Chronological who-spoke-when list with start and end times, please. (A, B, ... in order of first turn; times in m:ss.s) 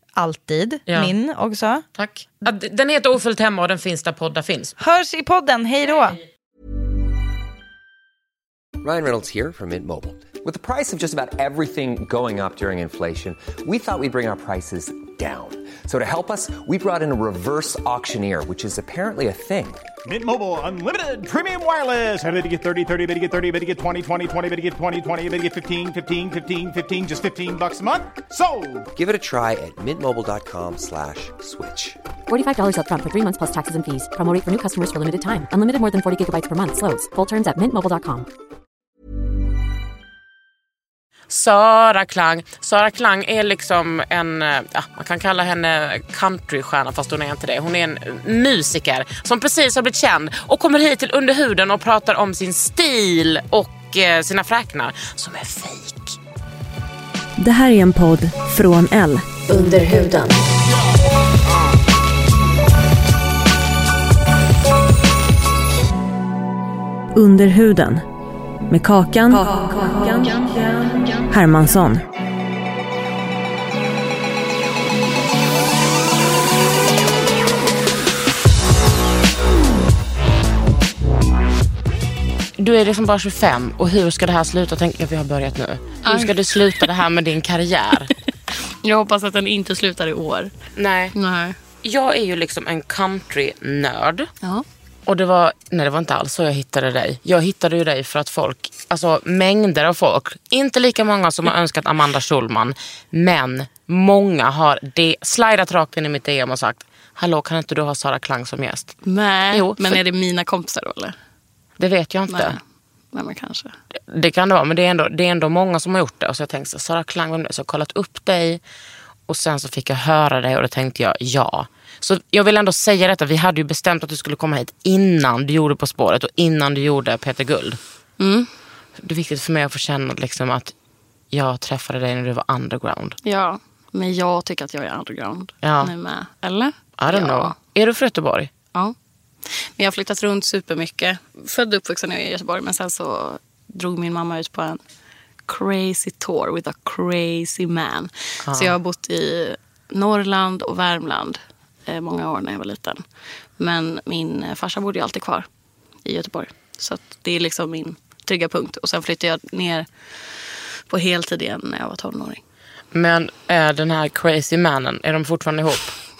0:00.2-0:01.8 A
0:00.9-0:01.1 B
0:02.0-0:04.8 B
0:04.8-0:06.2 A
0:08.8-0:19.9 C
0:20.1-0:28.9 D
0:28.9-0:32.0 C
0:32.3-0:38.3 E
0:41.3-0:56.2 B
0:57.4-1:00.4 F
1:07.1-1:08.0 F
1:08.7-1:12.0 F
1:22.6-1:28.1 B
1:26.0-1:26.8 G
1:28.8-1:30.5 G
1:30.8-1:31.2 B
1:31.2-1:31.6 G
1:31.8-1:34.3 B
1:35.1-1:49.0 B
1:49.0-1:51.2 G
1:49.5-1:50.0 B
1:51.8-1:52.6 B
1:52.3-1:52.6 G
1:53.1-1:53.8 G
1:54.0-1:58.6 B
1:59.3-2:07.8 B
2:08.2-2:08.5 G
2:09.0-2:10.7 B
2:11.3-2:13.2 B
2:13.2-2:17.6 G
2:15.6-2:15.9 B
2:17.0-2:18.5 B
2:19.7-2:24.8 G
2:25.5-2:33.0 G
2:28.4-2:28.8 B
2:33.6-2:35.5 G
2:36.0-2:39.9 G
2:40.9-2:42.4 G
2:42.9-2:46.0 B